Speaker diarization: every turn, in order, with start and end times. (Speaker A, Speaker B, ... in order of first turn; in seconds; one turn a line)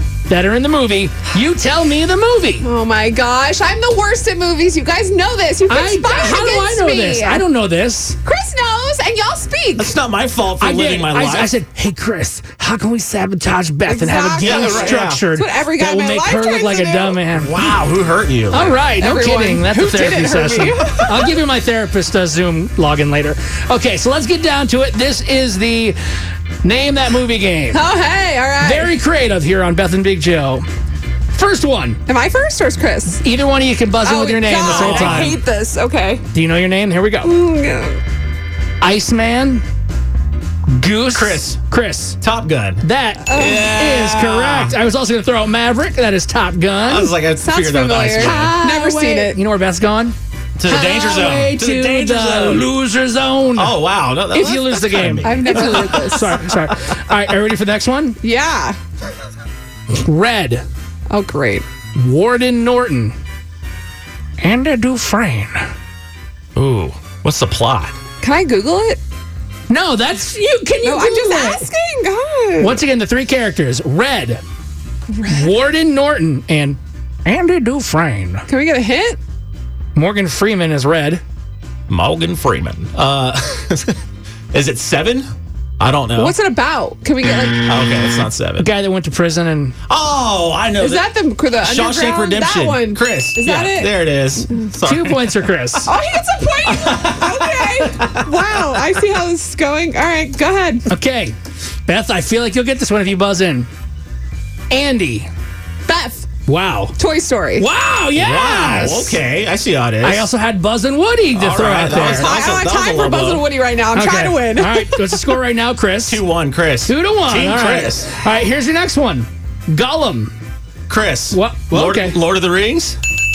Speaker A: 0.3-2.6
Speaker B: 2.6-7.4
Speaker A: 5.7-8.2
Speaker B: 8.2-9.9
Speaker C: 9.8-11.5
Speaker A: 10.6-17.5
Speaker B: 13.8-17.2
Speaker C: 14.4-15.2
Speaker C: 17.3-18.7
Speaker A: 18.5-26.0
Speaker B: 18.6-21.3
Speaker A: 26.6-27.8
Speaker B: 27.7-28.9
Speaker A: 28.6-30.6
Speaker A: 31.3-32.0
Speaker B: 32.1-33.2
Speaker A: 33.1-35.4
Speaker B: 34.0-36.2
Speaker C: 34.6-35.4
Speaker A: 36.3-37.3
Speaker B: 37.2-38.0
Speaker A: 38.8-39.6
Speaker A: 40.7-42.2
Speaker C: 41.1-41.5
Speaker C: 42.2-44.8
Speaker A: 42.8-47.1
Speaker B: 43.2-43.7
Speaker C: 46.8-48.5
Speaker B: 47.4-49.4
Speaker A: 48.2-53.8
Speaker C: 50.6-52.7
Speaker C: 53.5-56.0
Speaker A: 54.3-58.2
Speaker B: 55.2-56.5
Speaker B: 58.2-58.8
Speaker A: 59.9-60.6
Speaker B: 61.1-61.6
Speaker A: 62.0-63.1
Speaker A: 64.4-65.7
Speaker C: 66.5-67.9
Speaker B: 68.2-69.0
Speaker A: 69.7-71.7
Speaker B: 70.8-72.8
Speaker A: 72.6-74.4
Speaker B: 75.1-75.5
Speaker A: 75.2-78.4
Speaker B: 78.5-79.2
Speaker A: 79.9-81.2
Speaker C: 81.9-84.0
Speaker C: 84.5-85.3
Speaker C: 85.8-86.3
Speaker B: 86.2-87.7
Speaker C: 87.6-88.7
Speaker A: 88.6-89.7
Speaker C: 89.9-91.1
Speaker B: 90.8-94.0
Speaker C: 91.6-95.3
Speaker A: 94.8-95.9
Speaker B: 95.8-100.9
Speaker C: 96.6-98.2
Speaker A: 100.9-101.3
Speaker A: 101.8-103.7
Speaker A: 104.7-105.3
Speaker B: 105.8-106.3
Speaker A: 106.5-106.9
Speaker B: 107.0-107.7
Speaker A: 107.6-109.2
Speaker C: 108.1-110.2
Speaker A: 110.0-112.3
Speaker C: 111.3-113.5
Speaker B: 111.9-115.4
Speaker A: 113.9-116.2
Speaker C: 116.1-118.1
Speaker A: 116.8-120.3
Speaker C: 120.9-123.0
Speaker A: 121.3-122.2